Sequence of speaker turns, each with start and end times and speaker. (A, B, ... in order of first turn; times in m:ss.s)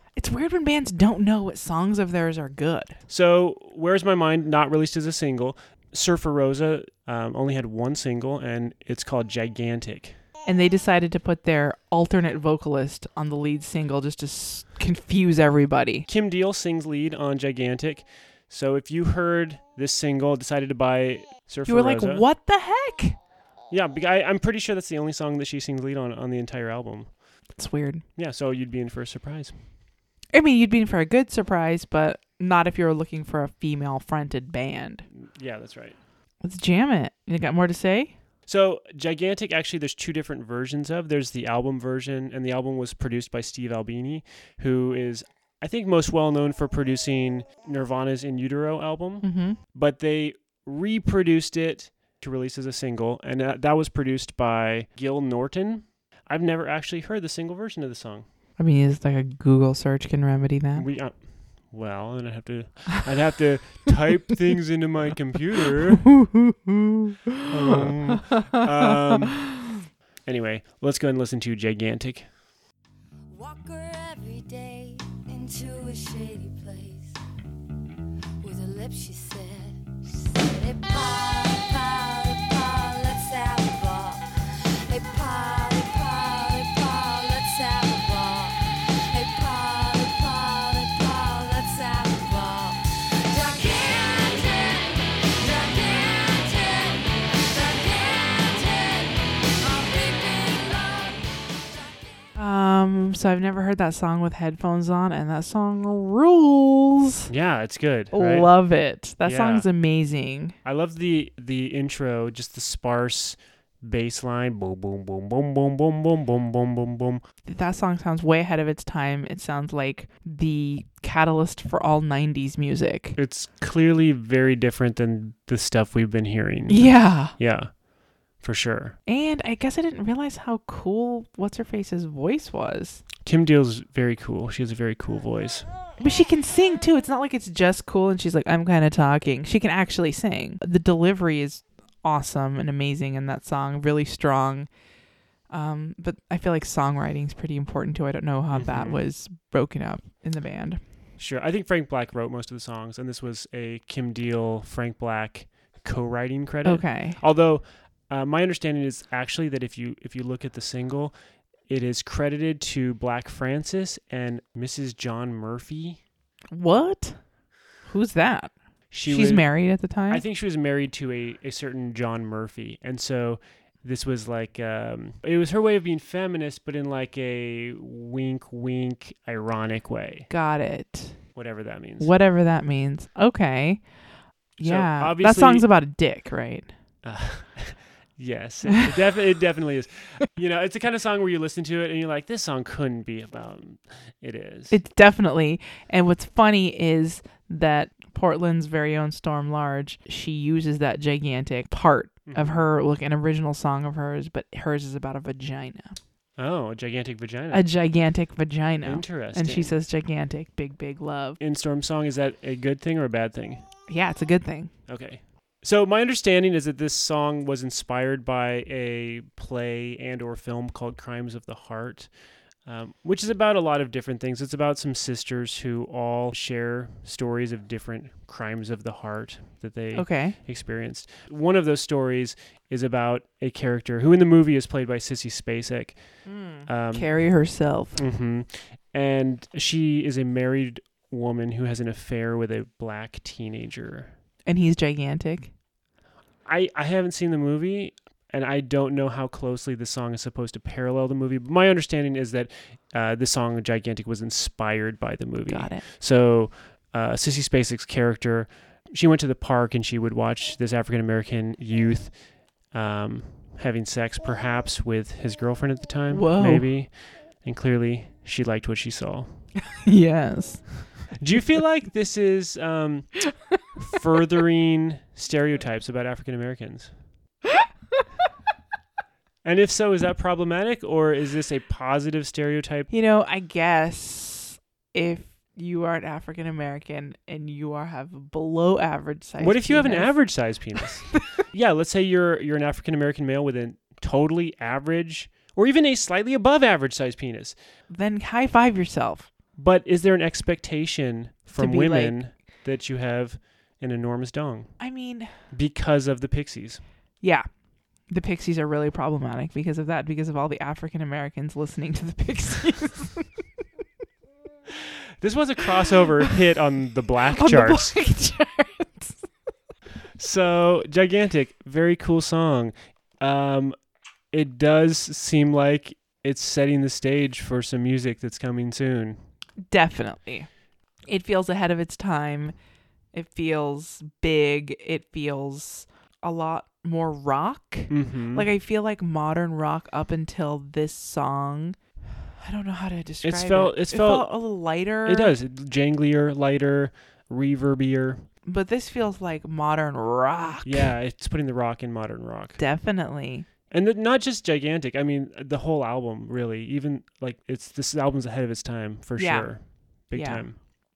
0:00.2-0:03.0 A
0:03.1-0:10.2 B
0:10.5-0:16.1 A
0:16.1-0:22.2 B
0:21.7-0:23.2 A
0:23.7-0:27.1 B
0:27.6-0:28.0 A
0:28.2-0:29.5 B
0:30.3-0:35.0 A
0:35.2-0:36.0 B
0:36.4-0:38.1 A
0:38.5-0:58.2 B
0:49.2-0:49.6 A
0:58.6-1:00.9 A
1:00.8-1:06.2 B
1:06.2-1:07.4 A
1:07.4-1:09.7 B
1:10.2-1:12.3 B
1:13.3-1:17.2 C
1:18.4-1:42.2 C
1:42.4-1:47.3 A
1:47.3-1:48.5 B
1:48.1-1:50.6 A
1:49.2-1:49.7 B
1:50.6-1:57.2 B
1:57.4-2:03.2 A
2:03.2-2:07.8 B
2:06.7-2:07.4 A
2:08.4-2:09.0 B
2:09.1-2:13.0 A
2:13.2-2:15.7 B
2:16.0-2:24.7 A
2:25.5-2:30.8 A
2:28.5-2:29.0 B
2:31.2-2:41.1 B
2:36.6-2:37.2 A
2:41.7-2:46.0 B
2:46.5-2:47.2 A
2:47.8-2:50.2 A
2:48.9-2:49.5 B
2:50.1-3:00.3 B
3:00.3-3:01.2 A
3:01.4-3:02.1 B
3:02.0-3:03.9 A
3:04.6-3:06.7 A
3:04.6-3:05.7 B
3:07.0-3:14.8 B
3:14.7-3:26.0 A
3:22.3-3:22.6 B
3:26.4-3:27.7 B
3:27.5-3:31.4 A
3:28.8-3:29.7 B
3:31.4-3:33.6 B
3:33.9-3:34.7 A
3:34.9-3:42.1 B
3:42.6-3:57.1 B
3:50.0-3:50.4 A
3:56.3-3:58.0 A
3:58.0-4:04.1 B
4:04.5-4:05.5 A
4:06.4-4:22.2 B
4:15.5-4:15.8 A
4:22.7-4:29.4 B
4:26.1-4:26.7 A
4:29.8-4:30.7 A
4:31.1-4:36.9 B
4:39.4-4:42.9 B
4:42.9-4:50.2 A
4:49.4-4:57.6 B
4:57.9-4:59.3 A
4:59.6-5:04.8 B
5:01.6-5:02.2 A
5:04.8-5:05.3 A
5:05.5-5:06.8 B
5:08.1-5:13.3 A
5:15.2-5:18.0 B
5:17.3-5:19.2 A
5:20.2-5:23.8 B
5:24.3-5:29.2 B
5:29.7-5:30.5 A
5:31.1-5:32.6 A
5:33.1-5:41.8 A
5:37.9-5:38.5 B
5:42.4-5:45.4 A
5:43.2-5:44.3 B
5:45.0-5:48.2 B
5:48.4-5:50.9 A
5:50.6-5:52.6 B
5:52.6-5:53.5 A
5:53.7-6:00.6 B
5:59.2-6:00.5 A